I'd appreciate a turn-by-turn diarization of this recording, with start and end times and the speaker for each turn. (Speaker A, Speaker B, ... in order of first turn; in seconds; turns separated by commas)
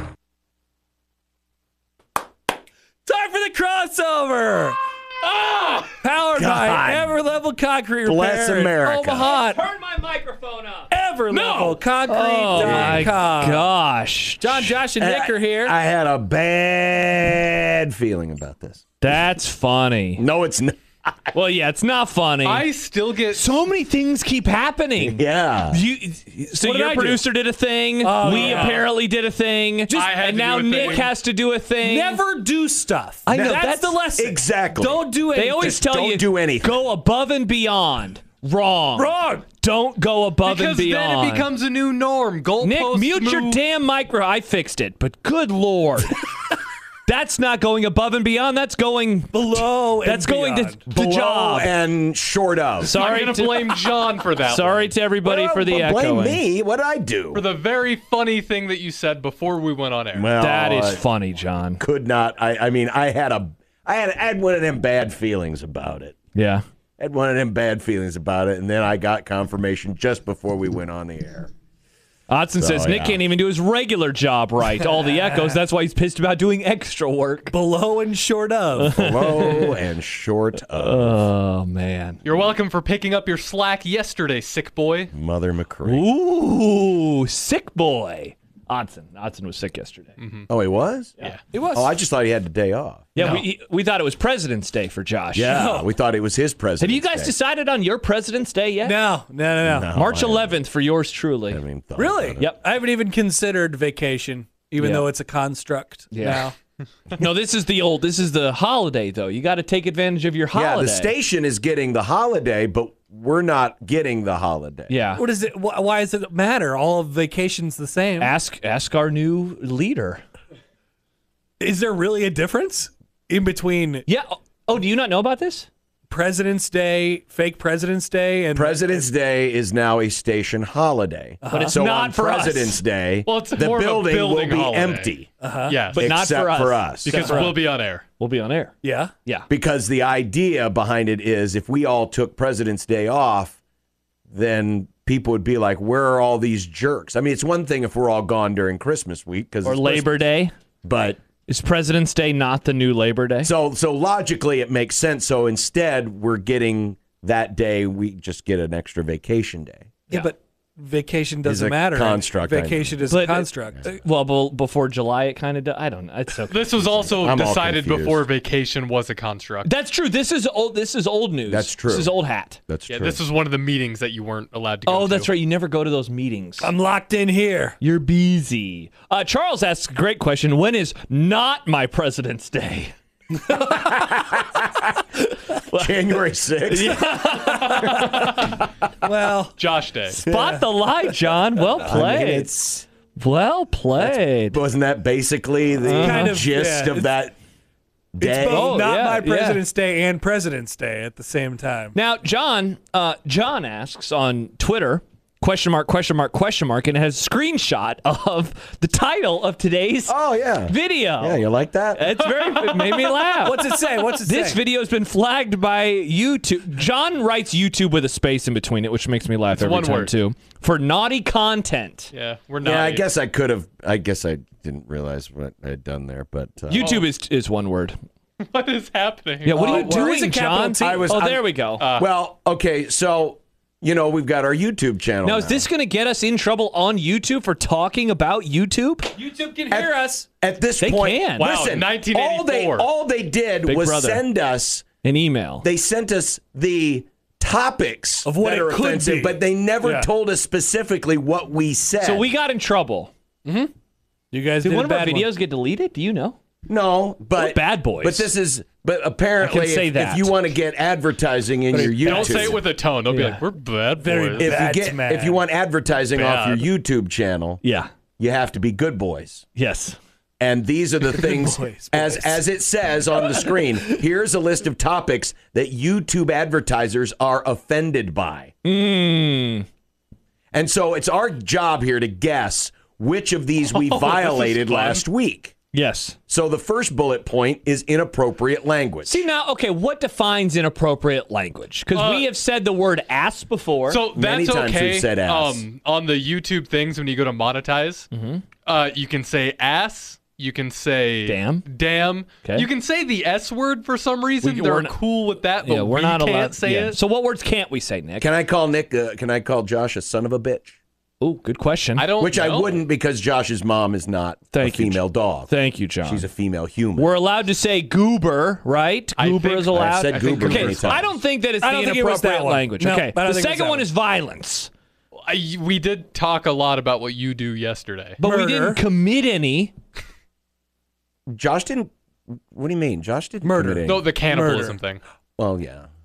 Speaker A: 3.1-4.8, Speaker A: 5.8-9.6, Speaker B: 6.3-7.1, Speaker B: 8.0-9.3, Speaker C: 9.2-14.8, Speaker A: 10.9-13.7, Speaker A: 14.4-15.7, Speaker B: 15.0-18.9, Speaker C: 19.0-20.2, Speaker B: 20.2-21.3, Speaker C: 21.3-22.7, Speaker D: 22.4-23.6, Speaker C: 23.3-32.2, Speaker B: 25.0-25.8, Speaker A: 26.5-27.2, Speaker A: 28.0-28.9, Speaker D: 28.2-28.8, Speaker D: 29.9-31.1, Speaker A: 30.8-31.1, Speaker A: 31.8-35.8, Speaker C: 33.3-34.0, Speaker B: 34.2-36.8, Speaker C: 35.3-41.5, Speaker A: 39.0-39.5, Speaker D: 40.4-43.6, Speaker C: 42.6-46.2, Speaker C: 47.0-51.7, Speaker A: 49.3-50.8, Speaker B: 50.9-53.0, Speaker C: 52.8-53.8, Speaker D: 52.9-54.9, Speaker C: 54.4-56.4, Speaker B: 55.2-57.4, Speaker D: 57.3-60.3, Speaker B: 60.1-61.0, Speaker C: 60.4-61.8, Speaker B: 61.8-66.2, Speaker C: 66.3-66.6, Speaker B: 67.0-71.5, Speaker C: 72.3-77.5, Speaker B: 72.6-73.2, Speaker A: 75.0-75.6, Speaker A: 77.5-79.0, Speaker C: 78.8-79.8, Speaker B: 78.9-81.3, Speaker C: 80.7-82.2, Speaker D: 82.2-85.1, Speaker B: 85.1-86.0, Speaker C: 85.8-90.1, Speaker D: 90.2-90.5, Speaker B: 90.5-91.1, Speaker A: 91.5-91.9, Speaker B: 91.7-93.1, Speaker A: 93.1-93.4, Speaker C: 93.1-95.7, Speaker B: 95.3-97.3, Speaker A: 95.5-95.9, Speaker C: 96.8-99.0, Speaker A: 98.8-99.9, Speaker B: 99.6-100.6, Speaker C: 99.9-101.6, Speaker B: 101.5-102.5, Speaker A: 102.0-106.5, Speaker C: 104.8-105.1, Speaker C: 106.1-106.5, Speaker C: 107.1-111.1, Speaker B: 110.5-114.9, Speaker C: 114.9-115.2, Speaker A: 115.2-118.3, Speaker C: 118.2-120.2, Speaker A: 121.6-124.1, Speaker C: 124.1-125.7, Speaker A: 126.1-129.0, Speaker B: 128.5-135.3, Speaker A: 131.4-131.8, Speaker C: 131.5-132.8, Speaker D: 133.2-135.2, Speaker A: 135.4-135.8, Speaker D: 135.7-136.1, Speaker C: 135.9-137.6, Speaker B: 136.0-137.3, Speaker D: 137.0-138.0, Speaker A: 137.2-137.5, Speaker C: 138.2-139.5, Speaker A: 138.8-139.1, Speaker B: 139.5-143.6, Speaker B: 144.3-150.2, Speaker C: 149.6-150.5, Speaker B: 150.8-151.2, Speaker C: 151.5-153.5, Speaker B: 153.4-159.9, Speaker A: 160.1-163.9, Speaker B: 161.4-163.0, Speaker C: 163.1-167.2, Speaker D: 166.5-169.7, Speaker B: 167.2-168.2, Speaker C: 169.7-172.6, Speaker B: 171.5-172.2, Speaker B: 172.7-173.2, Speaker D: 172.9-175.3, Speaker C: 174.8-176.7, Speaker A: 176.6-177.8, Speaker C: 177.8-182.9, Speaker B: 184.1-184.9, Speaker C: 185.6-185.9, Speaker B: 185.7-187.0, Speaker C: 186.7-188.5, Speaker A: 187.2-188.4, Speaker A: 189.0-189.5, Speaker D: 189.6-190.2, Speaker C: 190.2-192.5, Speaker A: 190.3-190.6, Speaker B: 191.8-192.9, Speaker C: 193.2-194.6, Speaker B: 194.0-197.3, Speaker C: 195.8-196.4, Speaker A: 196.0-197.1, Speaker B: 198.1-198.9, Speaker A: 198.2-202.0, Speaker C: 198.2-199.6, Speaker C: 201.9-222.1, Speaker B: 210.1-212.2, Speaker D: 212.3-213.2, Speaker A: 213.4-214.6, Speaker D: 219.5-220.1, Speaker D: 222.1-223.1, Speaker B: 222.6-227.0, Speaker C: 226.7-228.0, Speaker D: 226.8-227.1, Speaker D: 228.4-229.9, Speaker C: 229.4-231.8, Speaker A: 229.5-231.1, Speaker B: 229.7-230.1, Speaker B: 230.8-235.7, Speaker D: 231.8-232.1, Speaker C: 235.2-239.1, Speaker A: 239.2-240.3, Speaker B: 239.7-244.8, Speaker C: 240.8-241.6, Speaker D: 241.4-242.9, Speaker C: 243.6-244.2, Speaker C: 245.0-245.7, Speaker B: 245.6-252.3, Speaker A: 248.2-250.1, Speaker C: 252.0-253.1, Speaker A: 253.4-253.7, Speaker A: 254.3-255.3, Speaker C: 254.6-256.4, Speaker B: 256.7-262.6, Speaker C: 257.4-258.3, Speaker C: 259.4-260.4, Speaker A: 261.7-262.6, Speaker D: 262.0-264.6, Speaker C: 263.1-263.4, Speaker A: 264.0-265.4, Speaker B: 264.4-267.6, Speaker D: 266.1-266.6, Speaker C: 267.6-267.9, Speaker B: 268.2-269.4, Speaker C: 269.6-270.0, Speaker B: 270.4-278.5, Speaker A: 271.1-272.4, Speaker A: 273.3-273.6, Speaker C: 278.6-279.7, Speaker B: 280.5-285.5, Speaker D: 283.7-285.0, Speaker C: 285.7-286.2, Speaker B: 286.3-289.2, Speaker C: 289.1-294.0, Speaker D: 291.9-292.3, Speaker D: 293.9-298.1, Speaker B: 294.1-295.6, Speaker C: 298.1-298.4, Speaker D: 298.6-307.0, Speaker C: 301.3-301.6, Speaker C: 302.4-302.7, Speaker C: 304.4-305.0, Speaker C: 305.6-308.3, Speaker B: 308.2-310.8, Speaker C: 311.2-312.1, Speaker D: 312.0-312.8, Speaker B: 312.2-315.5, Speaker C: 314.5-316.3, Speaker B: 316.0-317.1, Speaker C: 317.0-324.7, Speaker D: 319.2-321.1, Speaker B: 319.7-321.1, Speaker A: 321.6-323.9, Speaker D: 325.1-328.2, Speaker C: 328.2-329.7, Speaker A: 328.2-328.8, Speaker B: 331.3-334.1, Speaker A: 333.4-334.8, Speaker D: 333.9-335.0, Speaker B: 335.4-335.9